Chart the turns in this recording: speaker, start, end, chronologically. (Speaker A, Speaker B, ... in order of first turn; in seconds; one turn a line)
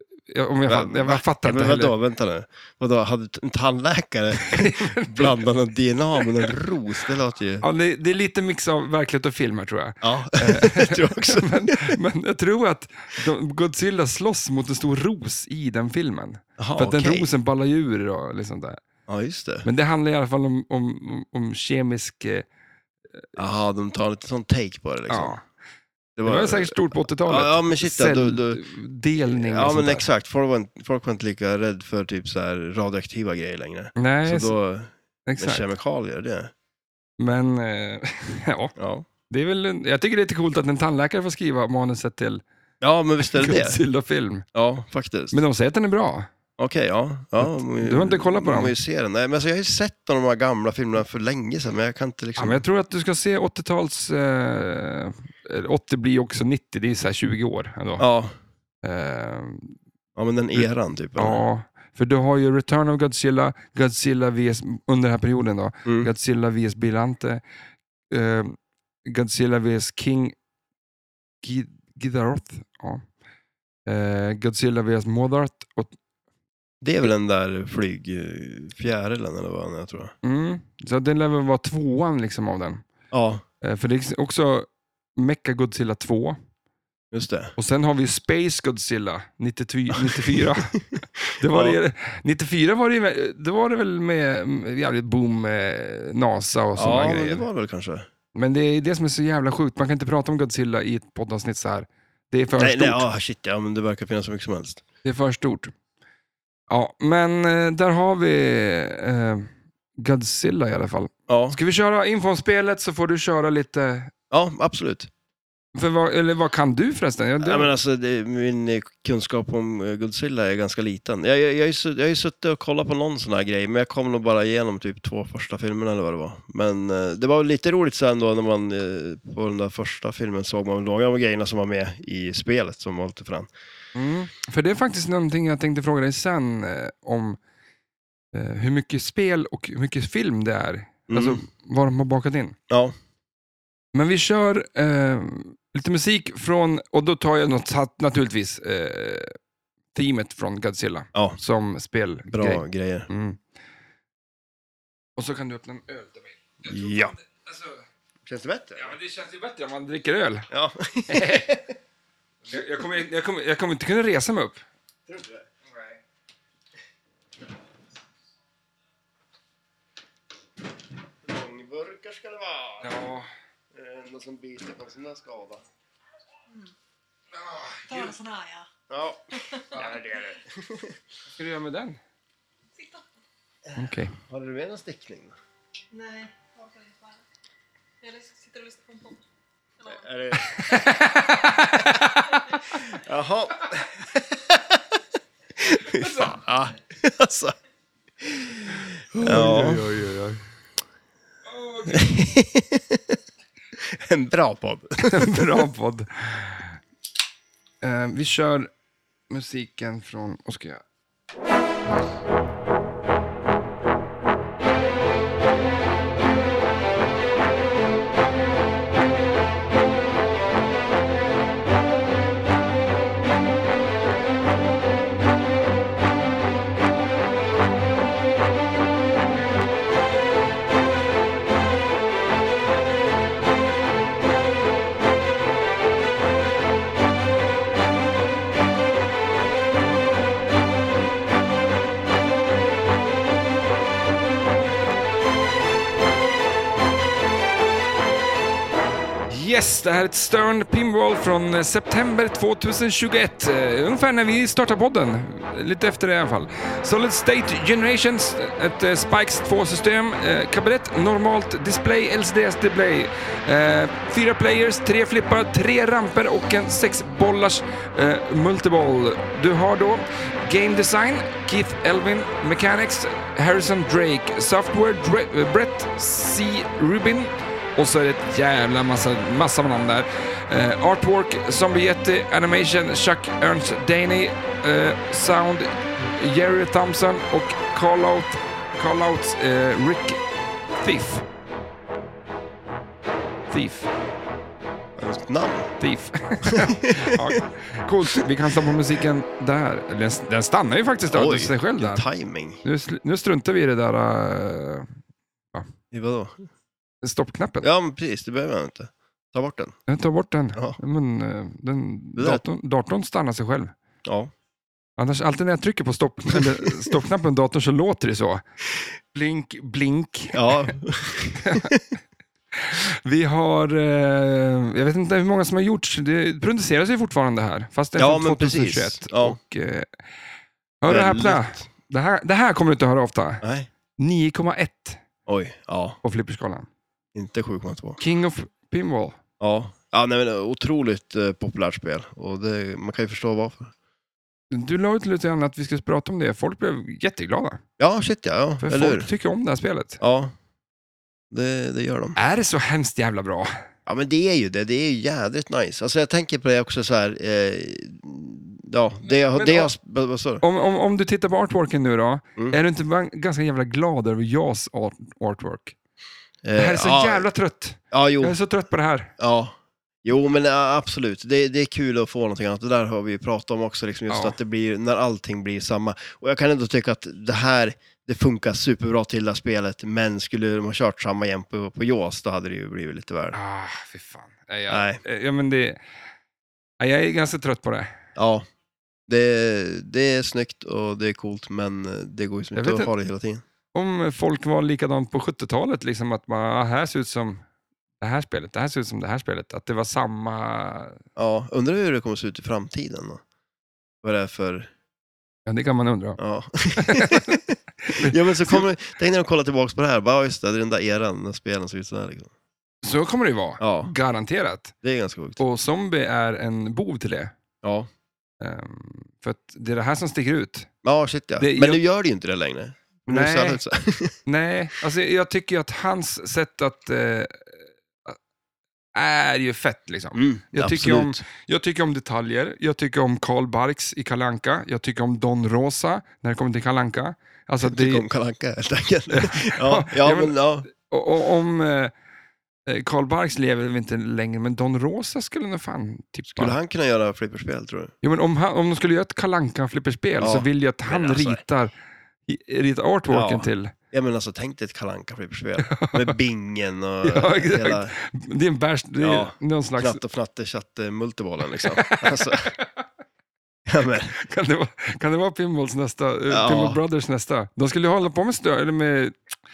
Speaker A: 0.3-1.9
Speaker B: 0.7-7.7
Speaker A: 4.4-5.4
Speaker A: 7.6-18.8
Speaker B: 10.0-12.0
Speaker B: 16.6-17.3
Speaker B: 19.1-19.7
Speaker A: 19.6-22.5
Speaker B: 23.4-25.4
Speaker A: 25.1-25.4
Speaker B: 26.2-28.6
Speaker A: 26.2-30.1
Speaker B: 29.3-36.5
Speaker A: 34.0-34.6
Speaker A: 35.3-35.7
Speaker A: 37.2-38.8
Speaker B: 38.8-39.1
Speaker A: 39.3-42.4
Speaker B: 42.8-43.8
Speaker A: 43.4-44.5
Speaker B: 44.5-45.4
Speaker A: 45.3-46.3
Speaker B: 46.6-52.6
Speaker A: 47.4-48.8
Speaker A: 52.4-58.1
Speaker B: 58.0-58.3
Speaker A: 58.8-59.8
Speaker B: 60.2-61.4
Speaker A: 60.6-67.4
Speaker A: 68.1-70.3
Speaker A: 71.4-73.0
Speaker A: 73.9-76.0
Speaker B: 76.8-80.1
Speaker A: 80.2-82.8
Speaker B: 83.1-83.4
Speaker A: 83.6-86.4
Speaker B: 87.1-87.5
Speaker A: 87.6-90.8
Speaker B: 90.0-91.8
Speaker A: 91.4-97.5
Speaker B: 96.8-98.1
Speaker A: 98.3-103.1
Speaker B: 102.6-104.8
Speaker A: 105.0-105.7
Speaker A: 106.7-114.1
Speaker B: 111.3-111.6
Speaker B: 114.3-115.1
Speaker A: 115.7-117.7
Speaker B: 117.4-133.5
Speaker A: 133.9-137.4
Speaker A: 138.3-142.6
Speaker B: 141.1-141.4
Speaker B: 142.7-142.9
Speaker A: 143.9-149.4
Speaker A: 149.9-153.4
Speaker B: 152.3-153.1
Speaker A: 155.2-157.8
Speaker B: 156.7-157.2
Speaker B: 158.2-158.9
Speaker A: 158.8-160.5
Speaker B: 160.5-161.7
Speaker A: 161.1-161.6
Speaker A: 162.5-164.6
Speaker B: 165.1-165.4
Speaker A: 165.7-166.0
Speaker B: 171.2-172.9
Speaker A: 172.8-173.3
Speaker B: 173.7-175.6
Speaker A: 177.3-178.1
Speaker C: 177.9-178.7
Speaker B: 178.9-181.0
Speaker C: 179.3-180.2
Speaker A: 181.4-182.0
Speaker C: 182.8-183.0
Speaker A: 183.8-184.2
Speaker B: 184.2-185.3
Speaker C: 185.9-187.2
Speaker C: 188.0-189.2
Speaker C: 189.8-190.1
Speaker B: 189.9-190.8
Speaker A: 190.5-192.6
Speaker B: 192.8-195.0
Speaker B: 195.6-197.6
Speaker A: 195.9-196.4
Speaker B: 198.2-199.9
Speaker A: 199.1-200.4
Speaker A: 201.5-202.3
Speaker B: 201.9-203.2
Speaker B: 203.8-205.7
Speaker A: 205.0-206.8
Speaker A: 207.8-208.7
Speaker A: 209.3-210.8
Speaker A: 249.3-290.2
Speaker A: 290.8-291.2
Speaker A: 293.5-293.9
Speaker B: 295.0-295.7
Speaker A: 295.8-302.0
Speaker B: 296.4-297.4
Speaker B: 301.1-302.6
Speaker A: 302.6-304.9
Speaker B: 305.9-306.4
Speaker A: 307.0-307.7
Speaker B: 307.6-309.8
Speaker A: 309.9-313.7
Speaker B: 312.2-312.4
Speaker B: 314.1-314.3
Speaker A: 315.0-318.4
Speaker B: 316.3-316.9
Speaker A: 319.1-320.7
Speaker B: 320.3-321.8
Speaker A: 321.4-321.8
Speaker A: 322.5-329.9
Speaker B: 328.0-329.4
Speaker A: 330.8-333.4
Speaker B: 330.9-331.6
Speaker B: 333.4-333.7
Speaker A: 334.0-335.0
Speaker B: 335.3-336.0
Speaker A: 336.0-336.7
Speaker B: 337.1-338.0
Speaker A: 338.0-339.2
Speaker B: 339.4-343.7
Speaker A: 344.5-347.6
Speaker B: 347.8-349.1
Speaker A: 348.6-350.0
Speaker B: 350.0-350.3
Speaker B: 351.3-352.2
Speaker A: 352.1-353.6
Speaker B: 353.9-360.4
Speaker A: 359.3-359.7
Speaker A: 360.4-365.8
Speaker B: 366.4-367.3
Speaker A: 366.6-369.1
Speaker B: 367.9-368.4
Speaker B: 369.2-383.4
Speaker A: 374.1-374.4
Speaker A: 383.3-385.8
Speaker B: 384.7-385.0
Speaker A: 386.8-388.0
Speaker B: 388.2-388.4
Speaker B: 389.1-393.4
Speaker A: 392.6-392.9
Speaker A: 393.7-397.4
Speaker A: 398.0-401.0
Speaker B: 401.2-403.2
Speaker B: 404.0-404.7
Speaker A: 405.5-406.2
Speaker B: 406.2-412.3
Speaker A: 406.8-408.7
Speaker A: 412.8-414.7
Speaker B: 413.6-413.9
Speaker B: 414.8-415.4
Speaker A: 415.4-417.3
Speaker B: 417.6-417.9
Speaker A: 418.4-420.7
Speaker B: 420.8-424.2
Speaker A: 421.4-421.8
Speaker A: 423.1-423.6
Speaker A: 424.3-428.2
Speaker A: 428.9-438.1
Speaker B: 430.1-431.2
Speaker B: 437.6-440.7
Speaker A: 439.1-441.9
Speaker A: 442.7-446.6
Speaker B: 446.4-447.9
Speaker A: 448.0-451.7
Speaker B: 450.2-451.4
Speaker A: 452.3-453.7
Speaker B: 453.1-457.9
Speaker A: 455.6-456.1
Speaker A: 457.0-460.0
Speaker B: 459.0-462.5
Speaker A: 461.6-462.7
Speaker B: 463.7-464.1
Speaker A: 464.2-469.2
Speaker B: 466.3-466.8